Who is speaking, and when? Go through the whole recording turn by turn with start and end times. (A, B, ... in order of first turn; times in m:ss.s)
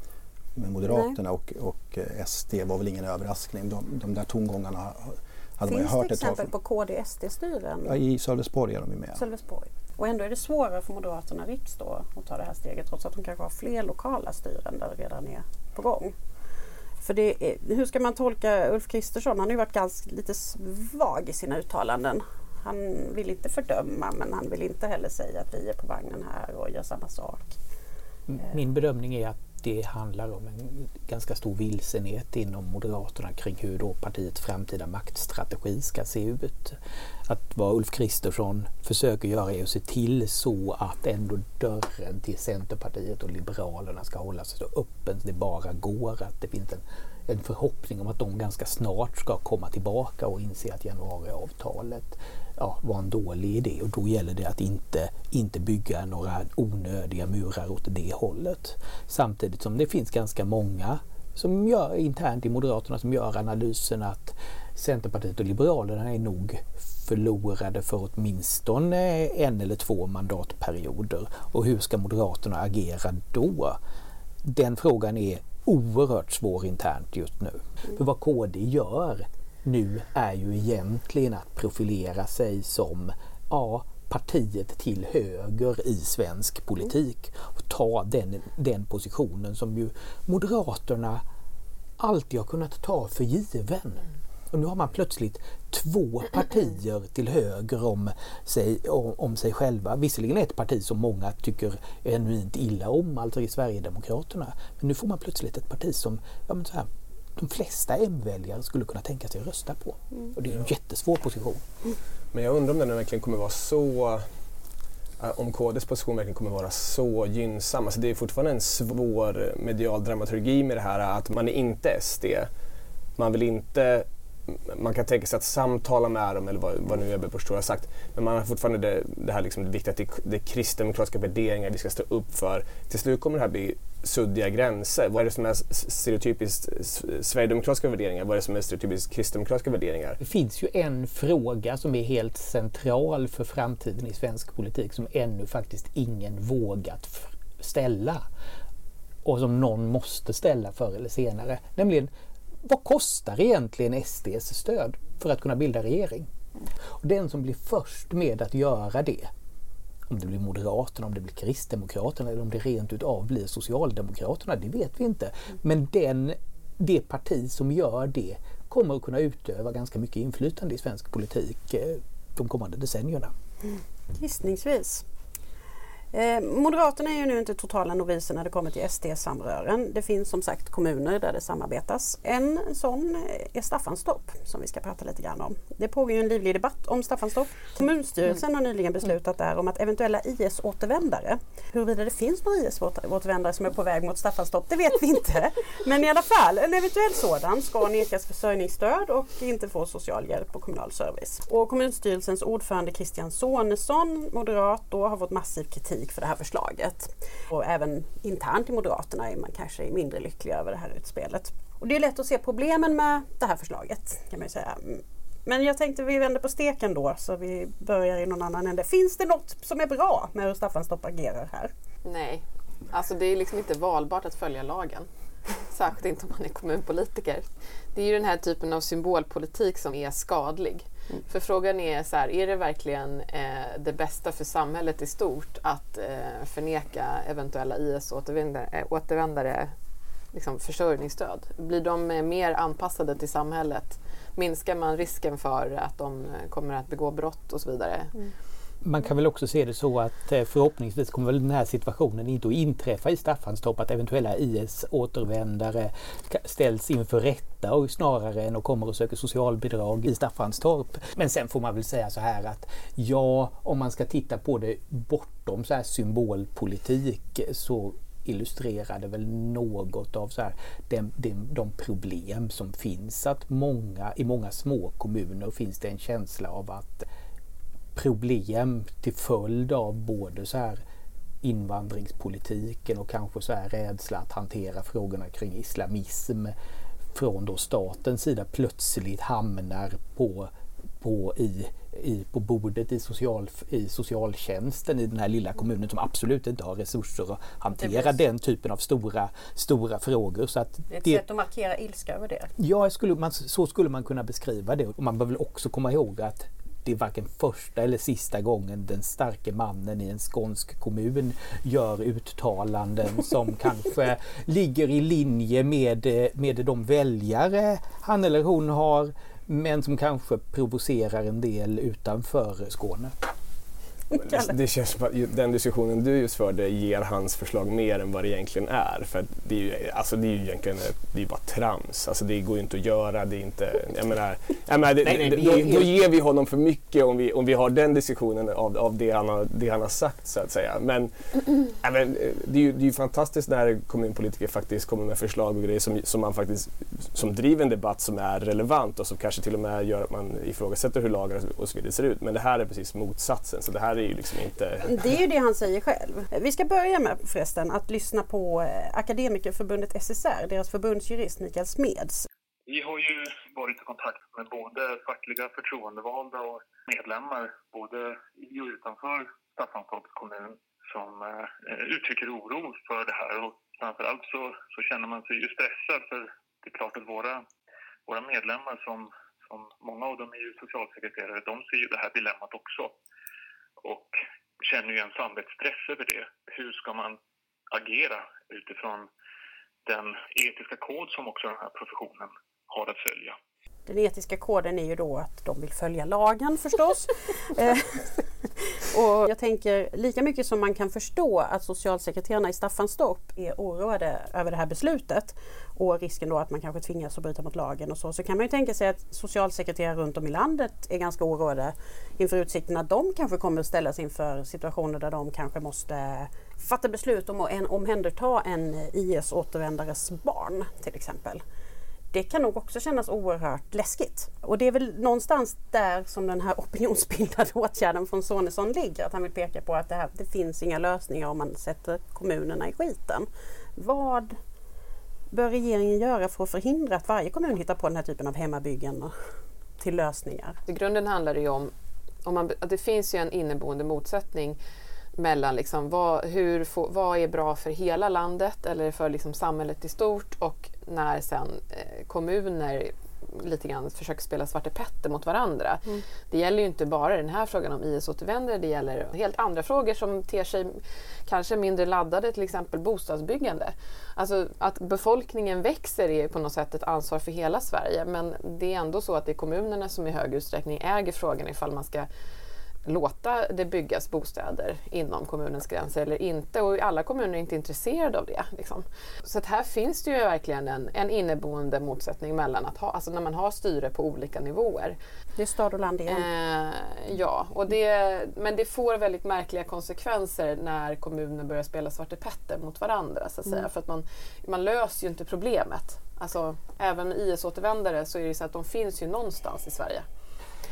0:00.6-0:06.5 A
0:00.9-0:01.1 B
0:05.7-0:08.0 B
0:07.8-0:09.2 A
0:09.2-0:16.1 B
0:17.0-0:27.5 B
0:28.3-1:13.8 C
1:14.4-1:31.2 C
1:32.0-1:51.6 C
1:52.3-1:54.2 D
1:55.2-2:02.5 D
2:03.2-2:20.2 D
2:20.2-2:28.2 C
2:29.2-2:32.1 C
2:32.6-2:36.3 C
2:37.0-2:39.3 C
2:40.1-2:53.3 C
2:54.1-2:55.0 B
2:56.1-3:41.7 B
3:42.0-3:45.1 E
3:45.7-3:59.7 E
4:00.3-4:08.1 E
4:08.8-4:37.1 C
4:37.9-4:40.8 C
4:41.4-4:46.5 C
4:47.1-5:01.2 C
4:57.8-4:58.1 B
5:00.9-5:02.5 B
5:02.6-5:23.1 C
5:24.1-5:24.5 B
5:24.1-5:54.9 D
5:35.0-5:36.0 C
5:54.8-6:02.3 B
6:02.7-6:17.4 F
6:18.1-6:23.0 F
6:23.8-6:27.2 F
6:27.7-6:29.1 F
6:29.8-6:33.4 F
6:33.8-6:38.2 B
6:38.9-7:01.4 B
7:02.1-7:14.4 B
7:15.3-7:19.1 B
7:19.8-7:20.6 B
7:20.7-7:21.7 E
7:22.2-7:24.6 E
7:25.2-7:52.1 E
7:52.8-8:05.0 E
8:05.4-8:06.3 B
8:06.1-8:20.0 E